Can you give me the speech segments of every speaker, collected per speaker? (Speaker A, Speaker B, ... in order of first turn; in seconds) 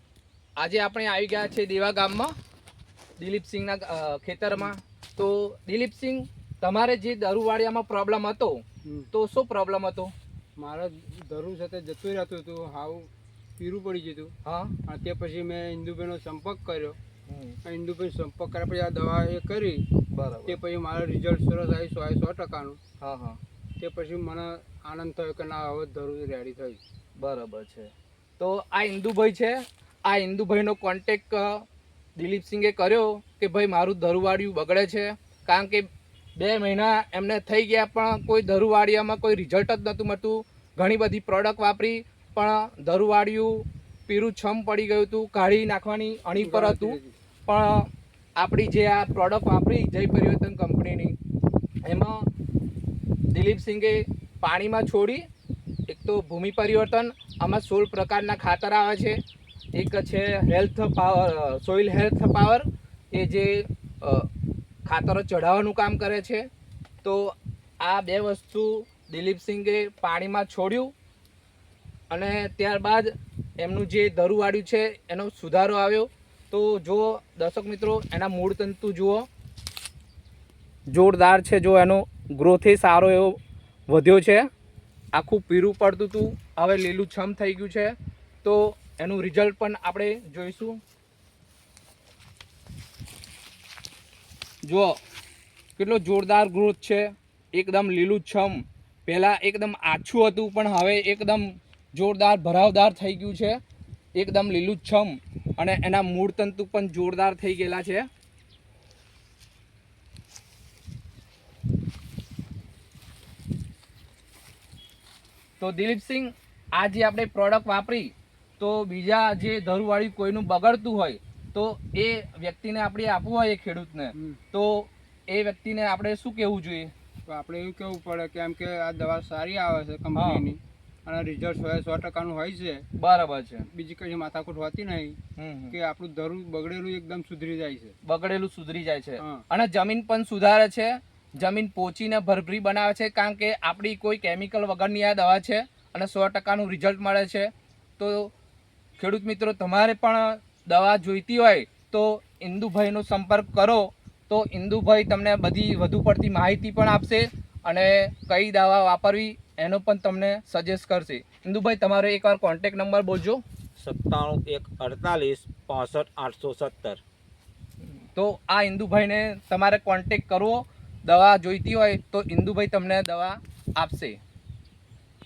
Speaker A: 0.6-2.3, 3.2-10.1, 14.4-14.7, 17.3-17.6, 20.1-20.6, 23.0-23.4, 27.2-31.6, 32.2-35.9, 36.4-51.1, 51.8-52.3, 53.3-55.2, 55.9-59.2, 59.7-64.3, 64.8-66.4, 67.0-70.9, 72.1-79.2, 80.9-83.4, 83.9-84.4, 85.1-90.8, 94.6-95.0, 95.8-103.6, 104.2-108.1, 115.6-126.9, 130.1-130.4, 133.0-133.7, 135.4-135.8, 138.0-148.3, 149.0-163.4, 167.9-174.2
Speaker B: 10.6-14.3, 14.9-17.0, 17.6-19.8, 20.4-22.8, 23.8-26.8, 46.4-47.1, 124.1-124.4, 127.3-132.8, 133.7-135.2, 135.7-137.9
Speaker C: 163.8-167.0